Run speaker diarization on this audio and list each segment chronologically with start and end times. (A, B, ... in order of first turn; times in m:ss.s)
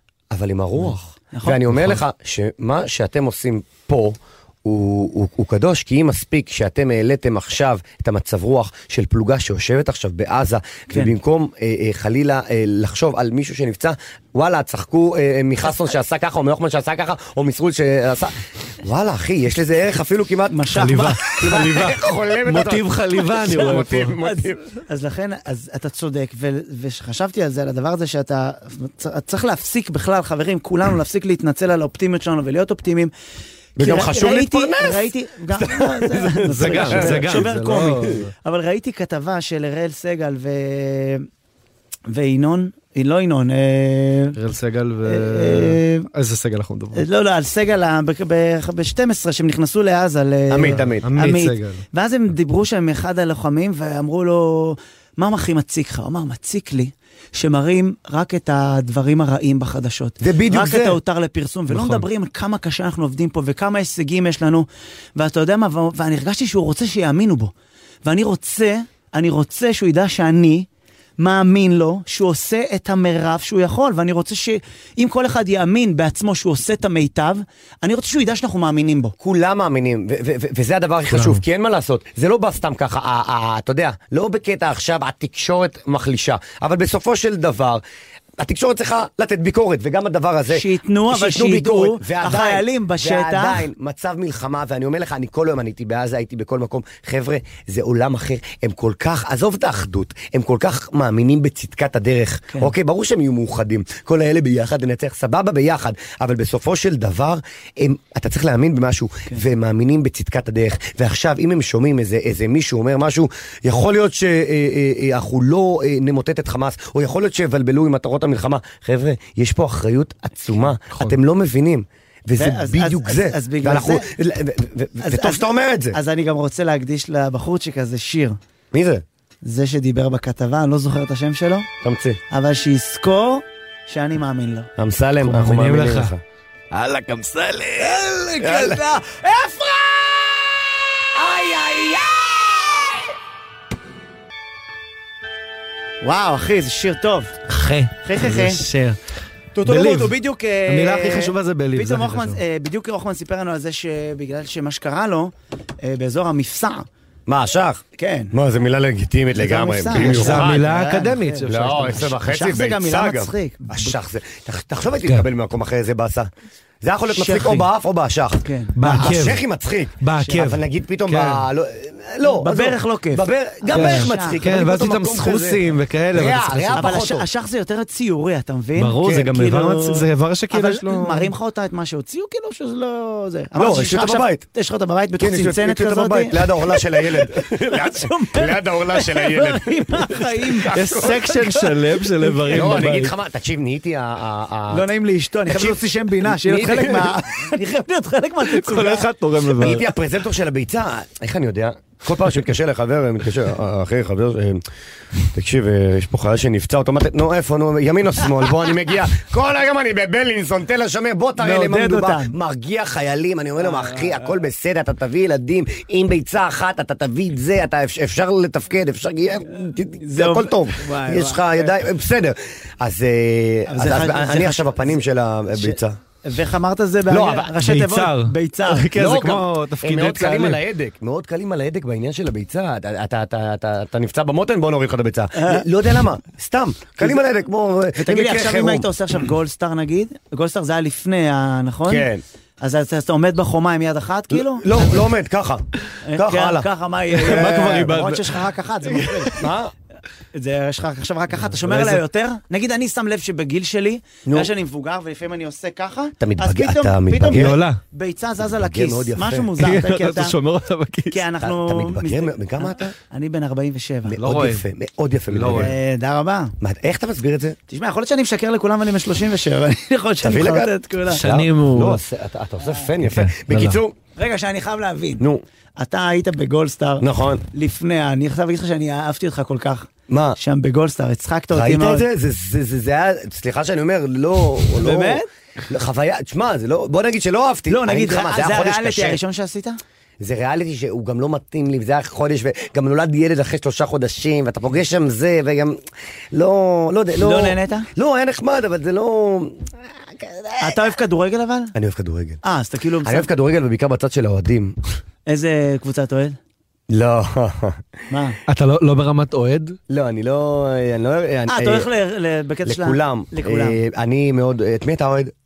0:00.3-0:24.6 A
0:01.3-0:01.9 B
0:20.5-0:21.2 B
0:20.7-0:24.2 C
0:24.2-0:33.1 B
0:33.8-0:37.5 A
0:33.8-0:41.3 B
0:36.5-0:38.3 C
0:42.1-0:44.4 B
0:44.4-0:47.1 C
0:45.1-0:46.1 B
0:47.0-1:07.5 B
0:50.5-0:51.1 A
0:51.0-0:51.8 C
1:00.2-1:01.0 A
1:01.7-1:02.0 C
1:08.0-1:10.7 B
1:11.2-1:19.1 B
1:19.2-1:27.8 A
1:21.1-1:21.4 C
1:28.4-2:06.0 A
1:30.5-1:33.6 B
2:00.9-2:01.2 C
2:02.4-2:04.1 B
2:05.0-2:08.4 B
2:08.7-2:09.0 A
2:09.4-2:11.7 B
2:11.8-2:12.2 A
2:12.3-2:14.7 B
2:14.8-2:16.2 A
2:15.2-2:16.1 C
2:16.7-2:18.1 C
2:17.8-2:20.3 B
2:18.4-2:18.8 A
2:21.2-2:22.9 B
2:26.0-2:27.4 B
2:27.5-2:29.0 C
2:28.0-2:28.6 B
2:29.6-2:36.9 B
2:29.6-2:32.4 C
2:37.3-2:40.7 A
2:38.0-2:38.3 B
2:39.4-2:41.5 B
2:39.9-2:42.2 C
2:41.4-2:46.3 A
2:42.1-2:44.0 B
2:46.8-2:57.3 A
2:47.1-2:47.7 B
2:48.4-2:49.1 B
2:48.8-2:49.4 C
2:50.0-2:51.4 C
2:52.2-2:54.4 B
2:53.7-2:56.9 C
2:56.8-3:12.8 B
2:58.8-3:01.3 C
3:03.6-3:04.4 A
3:05.2-3:11.2 A
3:10.7-3:13.1 C
3:12.5-3:14.9 A
3:14.7-3:19.1 B
3:15.5-3:17.2 A
3:18.4-3:19.9 C
3:19.6-3:24.6 A
3:25.2-3:46.0 A
3:31.4-3:32.4 B
3:33.7-3:34.2 B
3:40.0-3:41.8 B
3:43.7-3:45.0 B
3:45.5-3:48.9 B
3:47.1-3:47.5 A
3:47.6-3:50.6 C
3:48.9-3:58.9 A
3:55.4-3:55.7 B
3:58.0-4:02.1 B
4:01.9-4:02.2 A
4:02.6-4:04.8 B
4:04.3-4:06.7 A
4:06.0-4:09.4 B
4:07.1-4:09.3 C
4:07.2-4:07.8 A
4:09.3-4:09.7 A
4:10.3-4:20.4 B
4:11.4-4:12.0 C
4:14.2-4:14.5 A
4:16.2-4:17.6 A
4:17.3-4:17.8 C
4:18.5-4:19.5 A
4:19.6-4:21.2 C
4:21.1-4:24.2 B
4:21.4-4:22.9 A
4:24.1-4:25.8 A
4:24.2-4:24.6 C
4:25.3-4:25.7 C
4:25.6-4:26.5 B
4:26.6-4:27.6 A
4:27.7-4:31.2 B
4:30.2-4:34.0 A
4:31.1-4:32.0 C
4:33.0-4:33.8 C
4:34.2-4:35.2 B
4:35.8-4:42.1 B
4:37.0-4:37.4 A
4:40.1-4:40.4 A
4:41.5-4:49.2 A
4:44.8-4:45.3 B
4:47.7-4:49.8 B
4:50.2-4:55.8 A
4:56.3-5:00.9 A
4:57.2-4:57.9 B
5:00.6-5:01.7 B
5:01.7-5:02.4 A
5:02.4-5:03.3 B
5:03.0-5:04.8 A
5:05.3-5:06.4 B
5:06.9-5:07.8 A
5:08.1-5:08.4 B
5:08.5-5:09.8 C
5:09.9-5:11.9 A
5:11.5-5:13.8 B
5:12.6-5:15.3 A